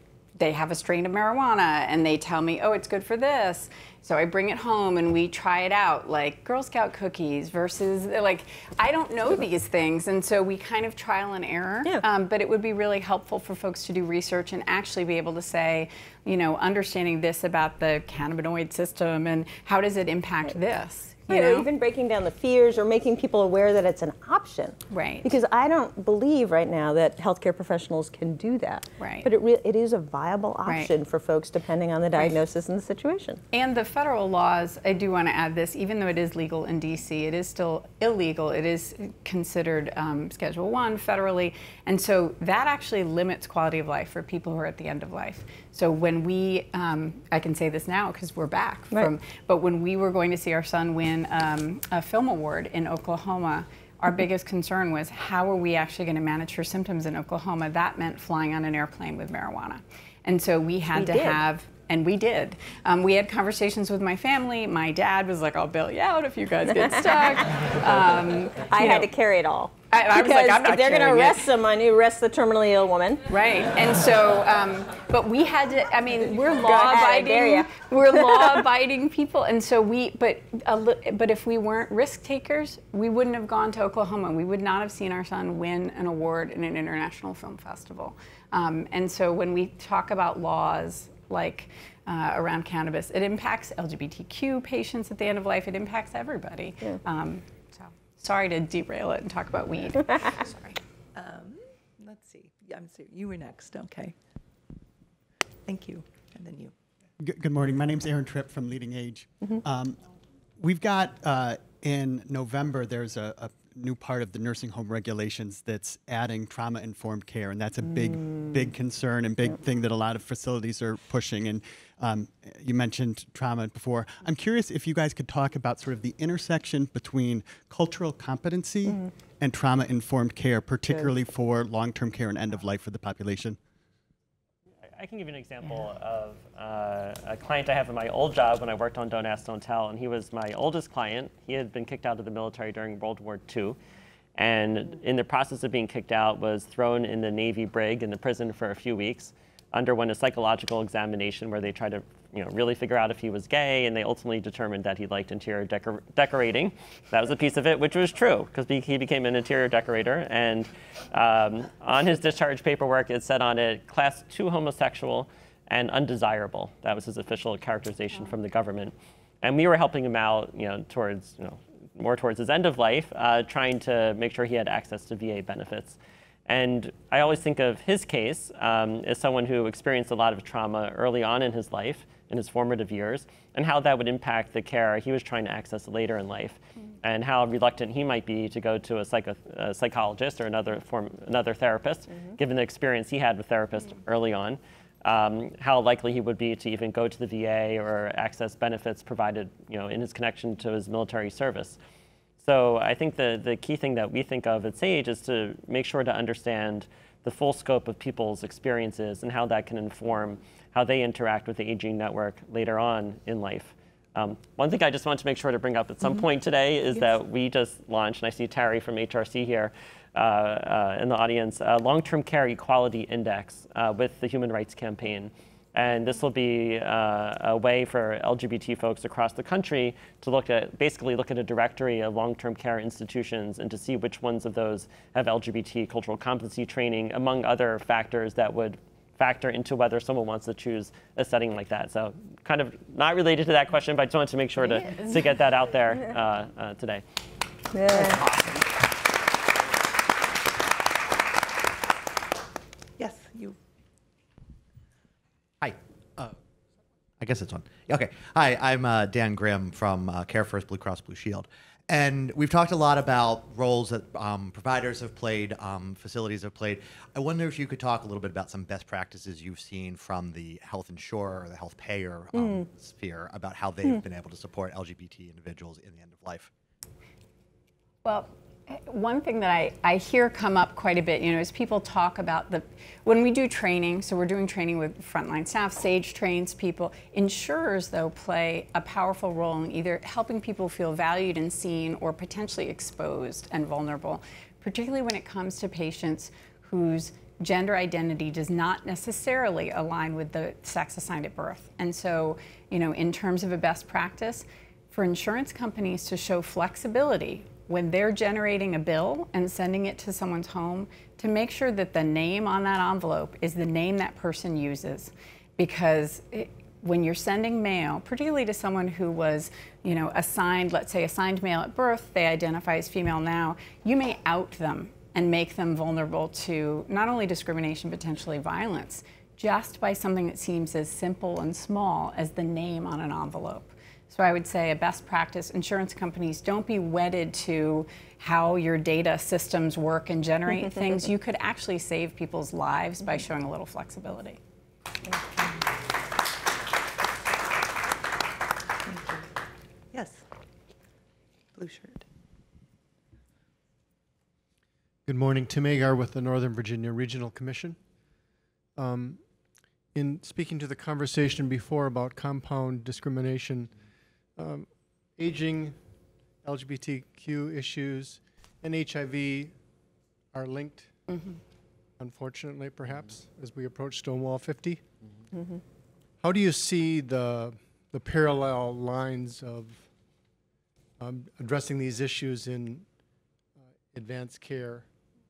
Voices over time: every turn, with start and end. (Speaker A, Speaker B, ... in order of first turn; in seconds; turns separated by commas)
Speaker A: 0.3-21.7, Speaker B: 21.3-33.4, Speaker A: 24.9-25.3, Speaker A: 29.0-29.3, Speaker A: 30.6-30.9, Speaker A: 33.5-69.1, Speaker B: 60.9-61.4, Speaker B: 66.8-67.7, Speaker B: 68.5-73.3, Speaker A: 69.9-71.5, Speaker A: 73.3-100.8, Speaker B: 76.5-78.7, Speaker C: 101.1-104.1, Speaker C: 105.7-106.7, Speaker D: 107.2-110.0, Speaker D: 110.6-133.6, Speaker B: 117.8-118.7, Speaker E: 134.9-143.8, Speaker E: 144.4-201.8, Speaker E: 202.4-247.0, Speaker A: 244.7-245.2, Speaker B: 247.7-248.2, Speaker A: 247.9-248.5, Speaker C: 253.0-253.6, Speaker F: 255.6-256.4, Speaker F: 257.2-276.5, Speaker B: 272.3-272.7, Speaker A: 278.0-344.4, Speaker C: 348.9-349.3, Speaker C: 349.9-350.2, Speaker C: 351.5-352.0, Speaker G: 355.1-357.8, Speaker G: 358.8-359.2, Speaker G: 359.9-363.7, Speaker G: 364.4-365.8, Speaker G: 366.4-369.5, Speaker G: 370.3-370.9, Speaker A: 371.1-371.4, Speaker G: 372.0-374.9, Speaker G: 376.2-379.9, Speaker G: 381.0-382.8, Speaker G: 383.9-384.9